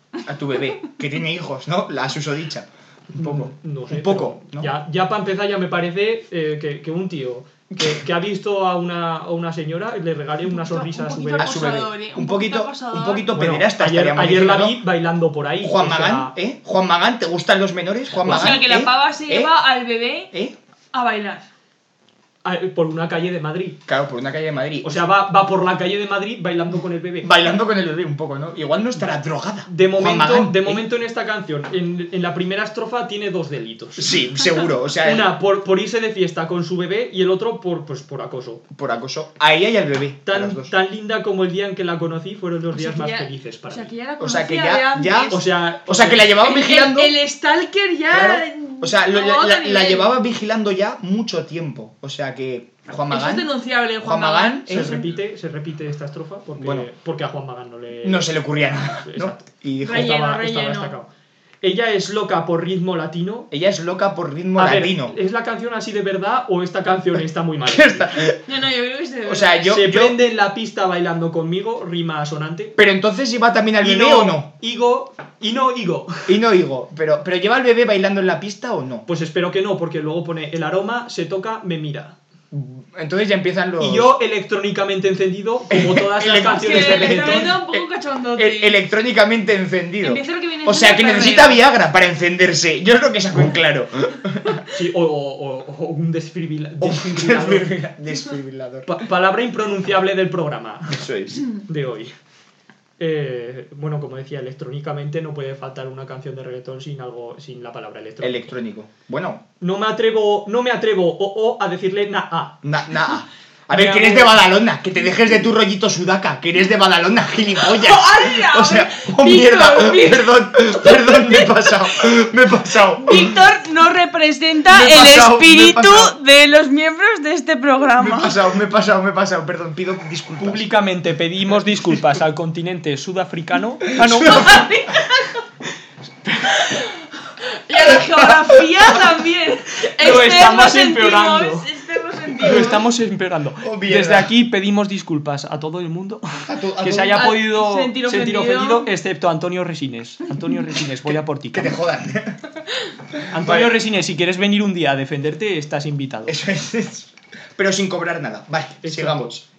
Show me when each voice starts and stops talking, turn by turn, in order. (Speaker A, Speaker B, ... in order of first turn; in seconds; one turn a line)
Speaker A: 0.2-4.7
Speaker B: 3.1-11.6
Speaker A: 7.7-8.0
Speaker C: 10.5-13.3
Speaker A: 11.4-14.8
Speaker B: 13.3-16.3
Speaker A: 15.6-19.5
Speaker B: 18.1-18.6
Speaker C: 18.2-20.3
Speaker C: 20.9-21.5
Speaker B: 22.4-23.8
Speaker A: 23.9-25.1
Speaker B: 24.8-27.3
Speaker A: 27.2-30.8
Speaker B: 29.6-34.1
Speaker A: 34.0-35.3
Speaker B: 35.0-38.6
Speaker A: 38.7-40.7
Speaker B: 40.2-43.9
Speaker C: 42.7-45.4
Speaker A: 44.2-47.1
Speaker B: 45.3-46.3
Speaker C: 46.4-50.1
Speaker A: 48.1-53.5
Speaker C: 53.1-55.0
Speaker A: 54.0-55.0
Speaker B: 54.7-61.1
Speaker A: 56.6-56.9
Speaker A: 58.0-60.2
Speaker C: 59.8-60.9
Speaker B: 61.6-63.5
Speaker A: 63.5-65.1
Speaker B: 64.5-68.1
Speaker A: 67.6-68.4
Speaker C: 68.5-69.7
Speaker A: 69.2-70.2
Speaker B: 69.7-72.8
Speaker A: 72.8-74.5
Speaker B: 73.8-76.3
Speaker A: 76.3-79.1
Speaker B: 79.1-82.2
Speaker A: 82.5-84.1
Speaker B: 83.8-87.5
Speaker A: 85.7-87.8
Speaker C: 86.4-88.8
Speaker A: 88.3-94.6
Speaker C: 90.0-91.6
Speaker B: 94.7-97.7
Speaker A: 96.8-98.9
Speaker B: 98.8-101.0
Speaker A: 100.9-101.4
Speaker B: 101.7-102.1
Speaker B: 103.0-108.5
Speaker A: 108.2-109.4
Speaker B: 109.6-112.6
Speaker A: 112.6-123.4
Speaker B: 113.7-114.4
Speaker C: 117.6-121.6
Speaker C: 123.0-128.4
Speaker A: 124.7-126.1
Speaker A: 128.0-130.7
Speaker B: 130.4-134.6
Speaker A: 134.0-134.6
Speaker C: 134.2-135.4
Speaker C: 136.5-136.9
Speaker C: 137.7-142.8
Speaker A: 138.2-138.6
Speaker B: 140.0-141.7
Speaker B: 142.4-151.7
Speaker A: 143.6-144.3
Speaker A: 146.4-147.3
Speaker C: 147.1-148.9
Speaker A: 151.5-152.4
Speaker A: 153.2-153.8
Speaker B: 153.3-156.4
Speaker A: 156.3-159.4
Speaker B: 158.8-159.4